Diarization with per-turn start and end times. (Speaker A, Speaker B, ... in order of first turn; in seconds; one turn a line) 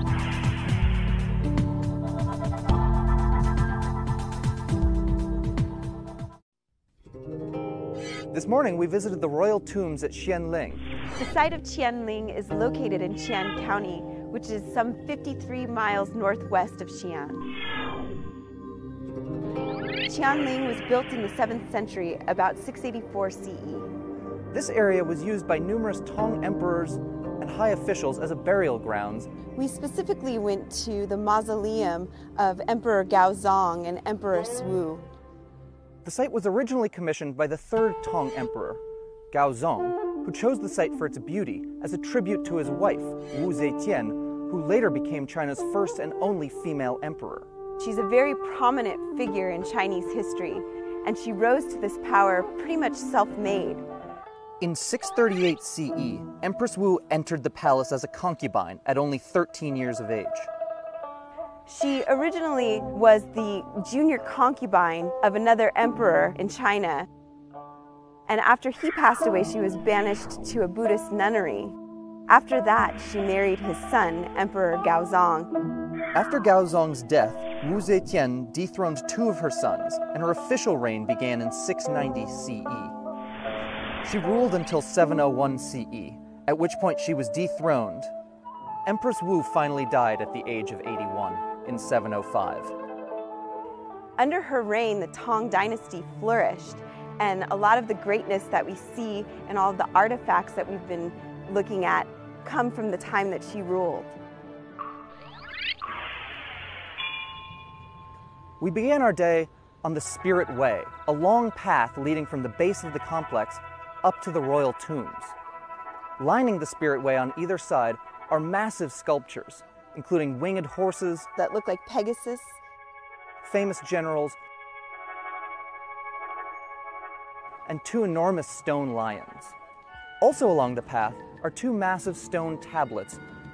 Speaker A: 8.3-10.8
Speaker B: 11.1-17.5
Speaker B: 20.1-23.9
Speaker A: 24.5-29.3
Speaker B: 29.5-35.1
Speaker A: 36.0-47.5
Speaker B: 47.8-53.9
Speaker A: 54.6-60.5
Speaker B: 61.7-67.1
Speaker B: 68.3-71.8
Speaker B: 72.3-75.5
Speaker A: 76.1-83.0
Speaker A: 84.0-88.1
Speaker A: 88.9-92.8
Speaker B: 94.2-104.2
Speaker A: 108.6-115.3
Speaker A: 116.2-121.3
Speaker B: 121.4-122.6
Speaker A: 123.4-124.4
Speaker A: 127.7-129.6
Speaker A: 130.2-133.2